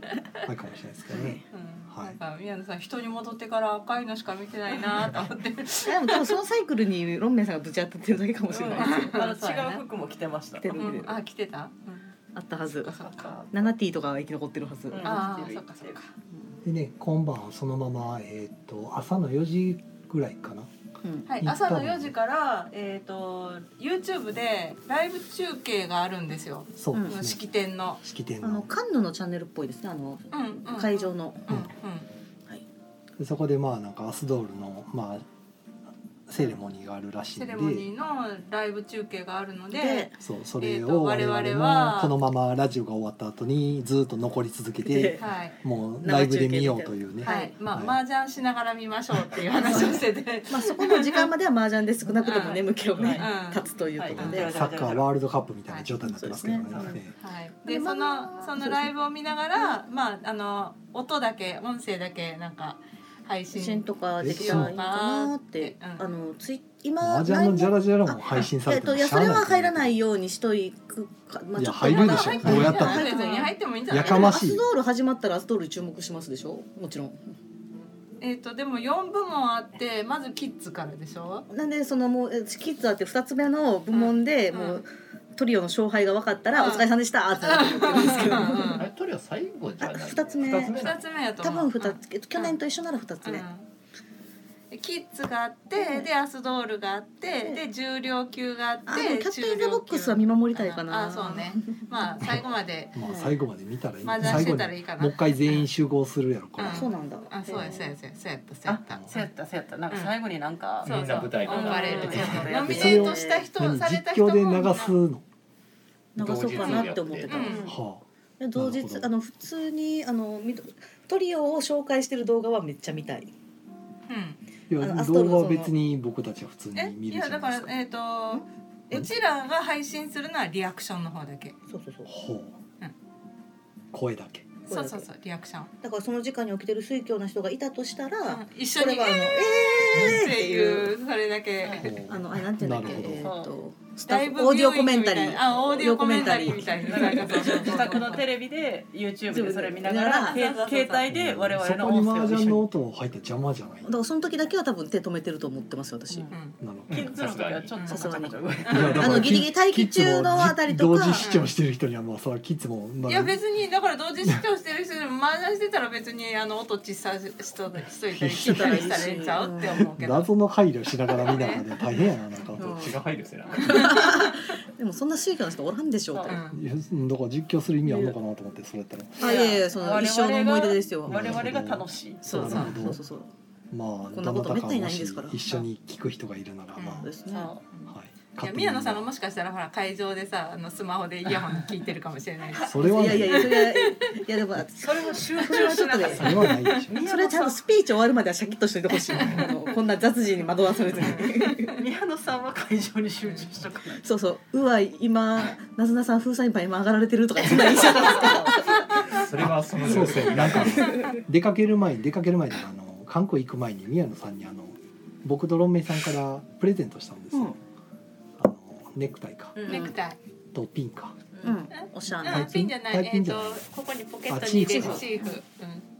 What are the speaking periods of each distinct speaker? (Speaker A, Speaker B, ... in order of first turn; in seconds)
Speaker A: 0.4-2.2, 16.6-20.7, 21.4-22.1, 26.8-27.4, 28.0-28.7, 33.2-35.2, 36.3-37.9, 40.2-48.0, 54.1-57.1, 64.2-64.8, 67.0-69.9, 71.6-73.1, 73.9-74.6, 102.9-106.9, 112.1-115.2, 117.7-118.0, 118.5-119.1, 124.7-127.7, 132.1-132.6, 133.9-134.6, 141.8-143.3, 146.2-146.6, 151.1-153.9, 156.6-157.1, 158.7-163.4, 168.1-168.8, 169.9-172.8, 176.5-179.2, 181.1-183.0, 183.7-187.1, 187.9-189.1, 192.7-193.6, 196.1-197.0, 209.4-217.6, 218.4-219.7, 220.5-221.2, 222.3-223.7, 224.3-225.1
Speaker B: 1.5-6.3, 8.8-9.8, 10.7-12.1, 12.8-13.4, 15.0-16.1, 21.3-28.0, 30.3-32.1, 37.4-42.1, 45.2-45.5, 47.2-51.3, 52.1-54.4, 57.2-66.0, 71.8-74.4, 78.2-81.5, 83.9-84.8, 86.5-86.9, 87.4-88.9, 90.7-92.6, 93.2-93.6, 94.7-103.0, 104.0-105.7, 106.6-109.2, 110.8-115.0, 116.5-117.7, 124.1-124.4, 126.8-131.6, 134.7-135.7, 138.3-141.9, 144.1-148.3, 150.2-151.1, 156.3-156.6, 157.7-158.1, 158.7-159.2, 161.2-161.5, 163.1-170.3, 171.2-171.7, 173.7-174.2, 176.3-176.6, 182.3-182.8, 186.8-187.1, 187.7-194.2, 195.5-196.8, 219.6-220.2, 222.2-225.8
Speaker C: 5.8-9.2, 10.6-11.2, 12.3-13.0, 13.5-15.2, 21.0-21.3, 26.9-27.2, 28.4-31.5, 39.7-40.1, 44.8-45.3, 46.0-47.5, 49.6-50.0, 50.5-54.5, 56.0-57.0, 57.6-58.9, 63.5-77.3, 81.5-88.8, 89.8-90.8, 91.4-93.4, 95.8-96.1, 98.9-101.8, 103.0-103.4, 106.7-107.9, 112.6-113.5, 116.2-117.8, 118.4-123.3, 124.8-125.7, 131.7-132.1, 134.7-135.1, 135.8-140.9, 142.1-148.0, 149.3-150.4, 153.8-156.3, 157.9-161.3, 168.4-169.8, 172.6-172.9, 173.6-176.4, 179.2-181.4, 182.2-183.3, 184.1-185.4, 187.0-187.5, 192.6-201.8, 204.0-209.1, 210.5-211.2, 217.3-217.6, 219.6-219.9, 221.4-222.5, 224.8-225.4
Speaker D: 8.5-10.9, 12.9-13.7, 14.9-16.0, 49.7-50.0, 52.9-53.3, 53.9-55.1, 108.7-113.1, 141.6-141.9, 143.1-143.6, 146.1-152.7, 156.9-159.3, 176.1-176.4, 177.9-178.1, 179.2-182.9, 187.3-187.6, 194.7-197.6, 199.2-199.5, 201.2-204.1, 207.4-209.2, 221.3-221.6
Speaker E: 88.8-91.0, 110.8-112.9, 116.2-117.6, 156.9-157.8, 172.6-174.0, 208.9-211.0